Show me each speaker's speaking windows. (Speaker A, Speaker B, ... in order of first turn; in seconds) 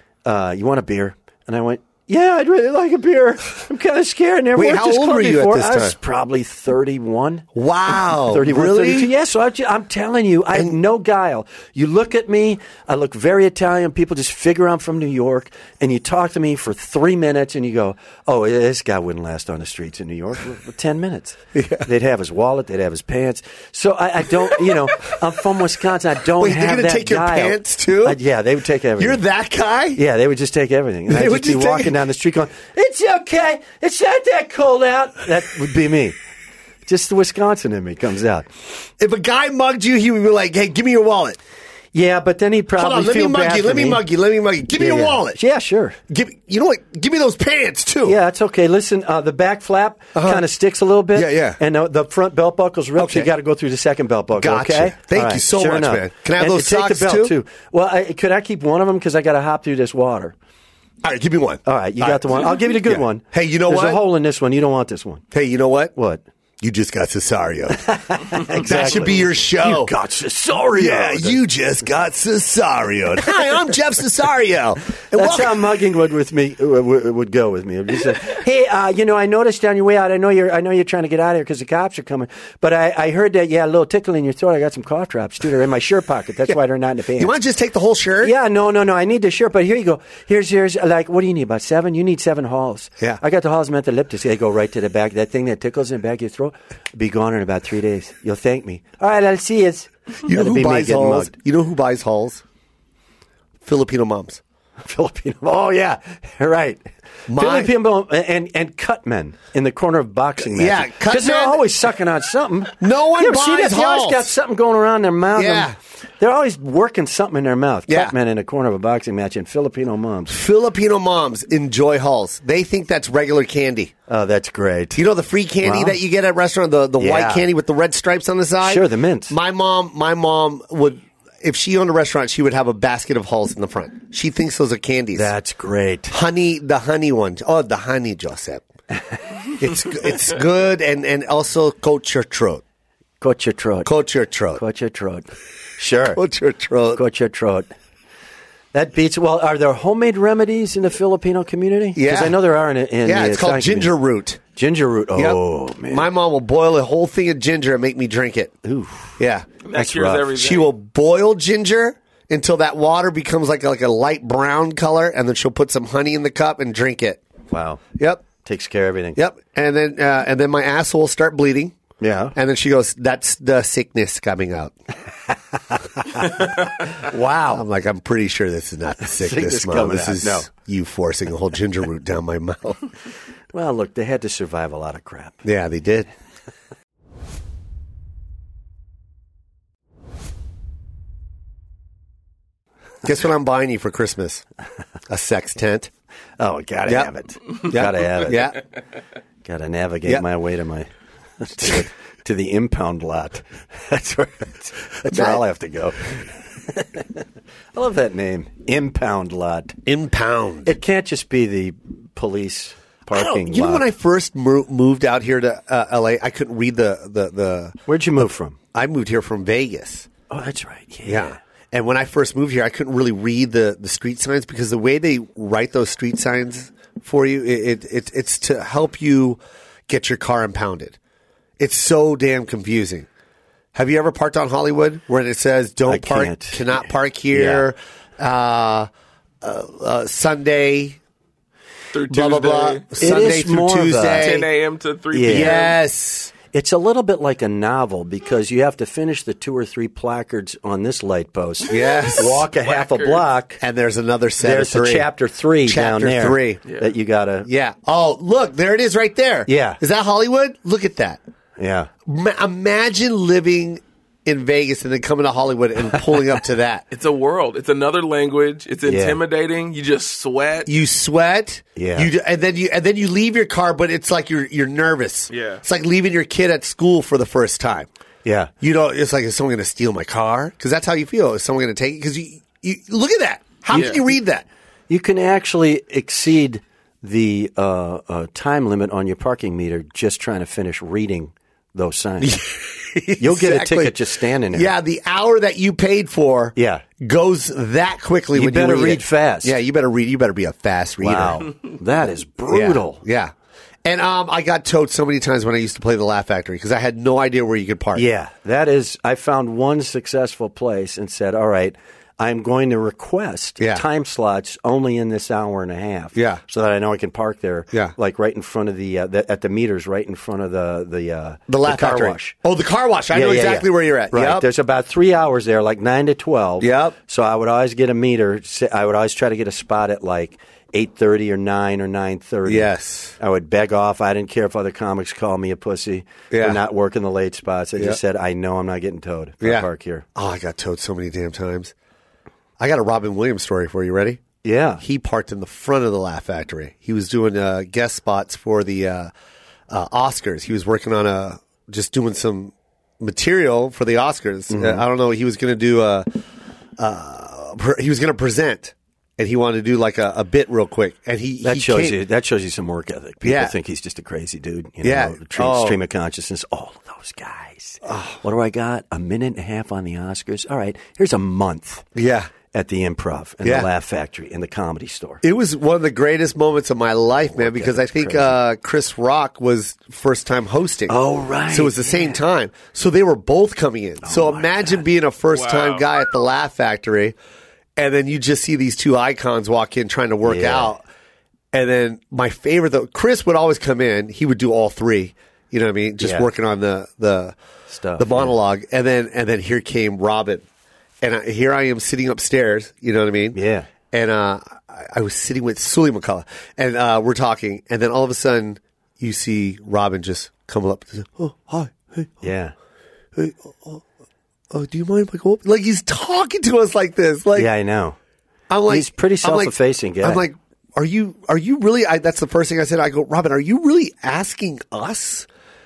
Speaker A: 0.2-7.5, 8.3-29.2, 29.9-36.1, 36.8-38.5, 41.9-44.0, 44.8-46.0, 48.0-60.3, 61.6-65.2, 66.0-66.2, 67.8-71.4, 75.1-87.3, 88.2-101.3, 104.8-120.3, 124.1-125.0, 125.6-126.0, 127.0-127.5, 128.6-129.3, 135.1-136.1, 143.2-143.9, 144.5-146.2, 146.9-147.7, 148.7-153.9, 154.6-156.1, 158.6-159.2, 159.7-160.3, 167.5-169.2, 172.0-172.3, 176.0-177.6, 179.1-180.5, 183.5-185.4, 196.4-198.6, 199.4-200.9, 201.4-207.2, 207.7-209.8, 210.6-213.8, 217.9-218.6, 220.3-221.3, 235.9-236.6, 237.3-237.7, 243.0-244.4, 245.1-245.7, 246.5-253.6, 254.4-257.5, 259.5-259.8, 261.6-261.9, 268.9-269.2, 271.8-272.1, 278.2-278.5, 284.9-292.4, 293.2-294.7, 296.6-296.8, 298.3-299.5, 301.0-303.0, 307.9-322.4, 323.1-340.1, 344.4-344.8, 354.5-354.8, 361.4-371.9, 372.5-375.2, 377.3-378.4, 380.9-382.2, 384.0-384.8, 390.2-390.8, 396.0-396.3, 397.7-398.3, 403.3-403.7, 412.2-412.5, 417.3-418.0, 418.7-420.2
Speaker B: 4.5-6.0, 7.5-9.1, 21.5-21.9, 24.7-25.1, 26.4-28.2, 29.0-30.0, 31.1-32.0, 39.0-41.4, 42.7-45.4, 46.1-48.2, 50.1-50.4, 51.1-51.6, 53.0-53.3, 54.4-57.4, 61.0-64.0, 65.3-66.0, 66.6-69.9, 70.7-75.6, 87.2-88.3, 100.2-102.4, 103.6-104.4, 107.3-107.7, 110.4-111.6, 112.8-114.3, 115.3-115.7, 117.9-118.1, 120.3-123.9, 125.0-135.3, 136.1-138.6, 139.6-142.6, 143.8-144.6, 146.1-147.0, 151.9-152.4, 153.0-154.4, 155.1-158.5, 159.2-159.5, 160.3-167.2, 168.0-168.3, 169.1-171.8, 172.3-174.7, 177.5-182.8, 185.4-186.1, 193.0-194.4, 195.1-195.9, 196.8-197.1, 197.6-198.6, 205.1-205.4, 209.8-210.8, 213.1-220.1, 221.0-231.0, 231.6-233.1, 233.7-238.9, 239.4-241.0, 242.1-244.5, 245.2-246.3, 251.7-252.4, 253.6-255.1, 255.6-256.6, 257.4-261.2, 262.1-266.8, 270.7-277.9, 278.6-284.4, 292.2-301.5, 302.5-303.3, 303.8-308.1, 313.6-313.8, 316.1-316.4, 321.5-324.5, 326.6-326.9, 332.4-333.1, 336.3-336.6, 339.4-341.7, 342.6-344.2, 344.8-349.1, 349.7-356.2, 356.8-362.0, 363.2-363.5, 364.8-365.8, 367.8-368.2, 371.9-372.3, 373.4-373.7, 375.2-380.9, 381.5-387.1, 387.8-390.8, 391.5-397.4, 397.9-400.4, 401.0-403.4, 403.9-412.3, 413.1-413.8, 414.5-417.5, 418.5-425.3
Speaker C: 159.6-160.7, 241.9-243.4, 244.1-245.8, 251.9-253.3, 256.6-256.9, 266.9-270.7, 275.3-275.6, 283.7-284.0, 385.3-385.9